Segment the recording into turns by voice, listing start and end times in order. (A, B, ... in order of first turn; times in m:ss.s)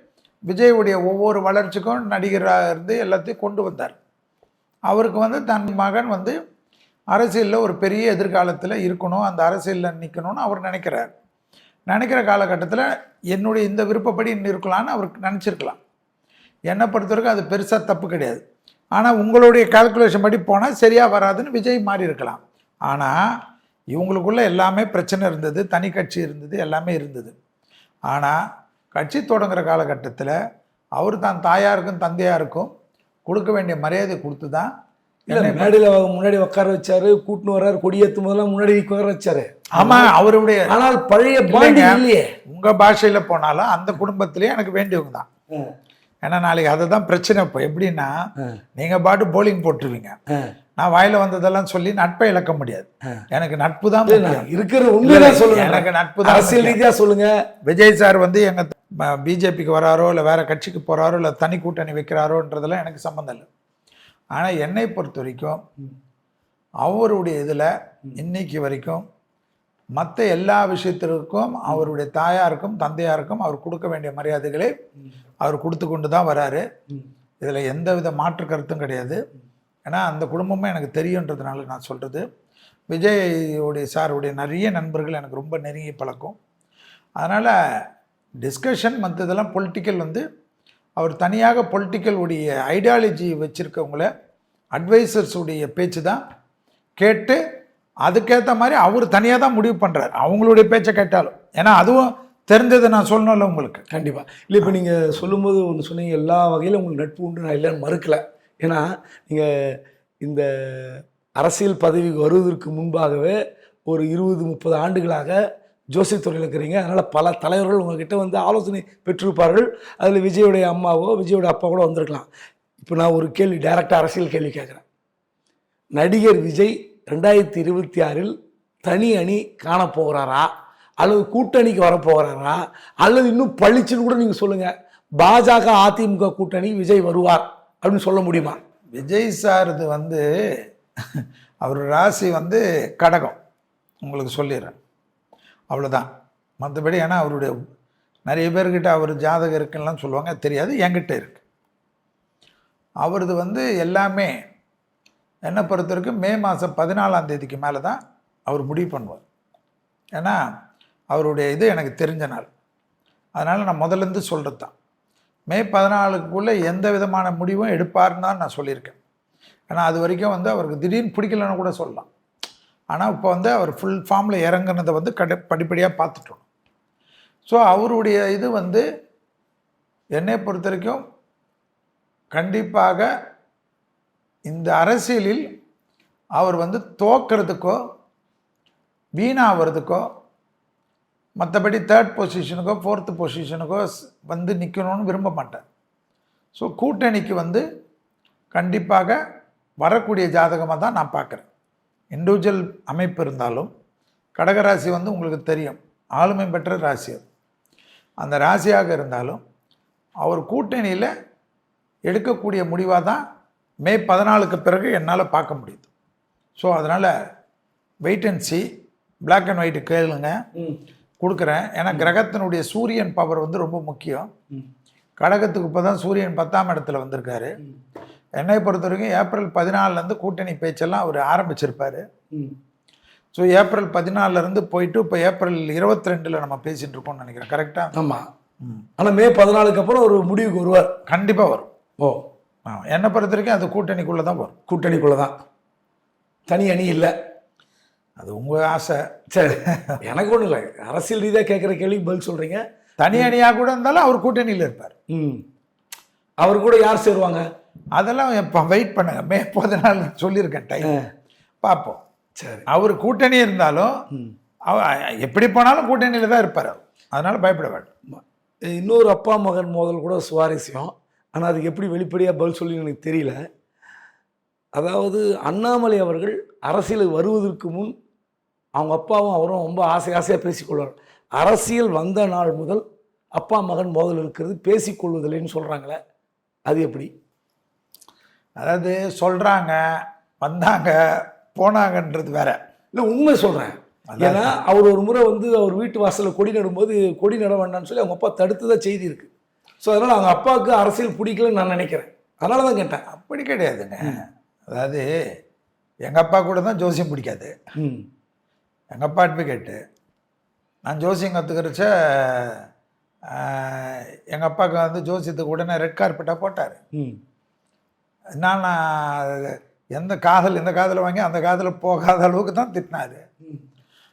0:00.5-0:04.0 A
0:04.9-0:06.3 A
0:07.1-0:11.1 A
0:11.9-0:15.8 A
0:16.7-0:18.4 A
0:18.9-0:23.3 A
0:23.9-0:27.3 A
0:28.1-0:28.4 A
0:28.9-0:30.3 A
0:31.0-0:32.7 A
0:33.2-0:34.7 A
0:35.3-0:40.1 B
0:35.3-0:35.7 A
0:39.7-0:40.7 A
0:40.7-0:42.4 B
0:41.4-0:45.3 A
0:46.2-0:48.1 A
0:48.8-0:50.1 A
0:50.8-0:54.5 A
0:54.0-0:57.3 B
0:55.0-0:56.8 A
0:57.6-1:03.5 A
1:04.3-1:05.6 A
1:06.8-1:09.0 A
1:10.0-1:14.7 A
1:15.4-1:16.6 A
1:17.4-1:19.2 A
1:19.8-1:22.2 A
1:22.9-1:26.4 A
1:27.2-1:27.5 A
1:28.4-1:30.2 A
1:31.0-1:34.1 A
1:34.7-1:36.2 A
1:37.0-1:37.4 A
1:38.0-1:43.8 A
1:43.9-1:53.4 B
1:53.9-1:55.4 B
1:55.9-2:02.3 B
2:02.8-2:04.8 B
2:06.0-2:08.3 B
2:08.8-2:18.6 B
2:18.9-2:20.3 A
2:21.1-2:23.4 A
2:24.0-2:24.8 A
2:25.7-2:26.1 A
2:26.6-2:27.5 A
2:28.3-2:31.4 A
2:33.0-2:34.3 A
2:35.5-2:39.2 A
2:40.1-2:40.4 A
2:41.1-2:42.5 A
2:43.4-2:44.7 A
2:45.5-2:49.0 A
2:49.7-2:52.1 A
2:52.9-2:56.4 A
2:57.5-2:58.8 A
3:00.2-3:01.0 A
3:02.3-3:03.1 A
3:04.5-3:05.5 A
3:06.4-3:07.8 A
3:09.2-3:10.0 A
3:11.4-3:15.6 A
3:16.5-3:17.6 A
3:18.5-3:19.2 A
3:19.8-3:21.5 A
3:22.1-3:23.7 A
3:24.4-3:27.2 A
3:28.2-3:29.4 A
3:30.2-3:31.1 A
3:32.1-3:33.2 A
3:33.8-3:35.9 A
3:36.6-3:37.1 A
3:38.0-3:38.6 A
3:39.3-3:40.4 A
3:40.5-3:40.8 B
3:41.2-3:44.3 A
3:45.2-3:47.5 A
3:48.4-3:52.0 A
3:53.3-3:57.9 A
3:57.9-3:58.2 B
3:58.6-3:58.9 A
3:59.0-4:01.0 B
4:01.1-4:01.7 A
4:02.6-4:04.6 A
4:04.7-4:05.3 B
4:06.5-4:07.1 B
4:08.2-4:10.0 A
4:09.3-4:13.3 B
4:13.0-4:14.9 A
4:15.1-4:15.4 B
4:16.4-4:17.4 B
4:17.9-4:20.9 A
4:21.6-4:22.0 A
4:22.4-4:22.7 B
4:22.7-4:23.9 A
4:24.7-4:27.9 A
4:28.1-4:33.4 B
4:34.8-4:37.9 B
4:38.8-4:42.8 B
4:43.4-4:46.0 B
4:46.7-4:47.1 B
4:48.6-4:52.6 A
4:52.9-4:59.3 B
4:54.1-4:54.6 A
4:59.8-5:03.0 B
5:03.0-5:05.1 A
5:06.0-5:07.5 A
5:07.8-5:08.0 B
5:08.9-5:09.8 A
5:10.9-5:12.7 A
5:13.3-5:16.8 A
5:18.4-5:23.2 A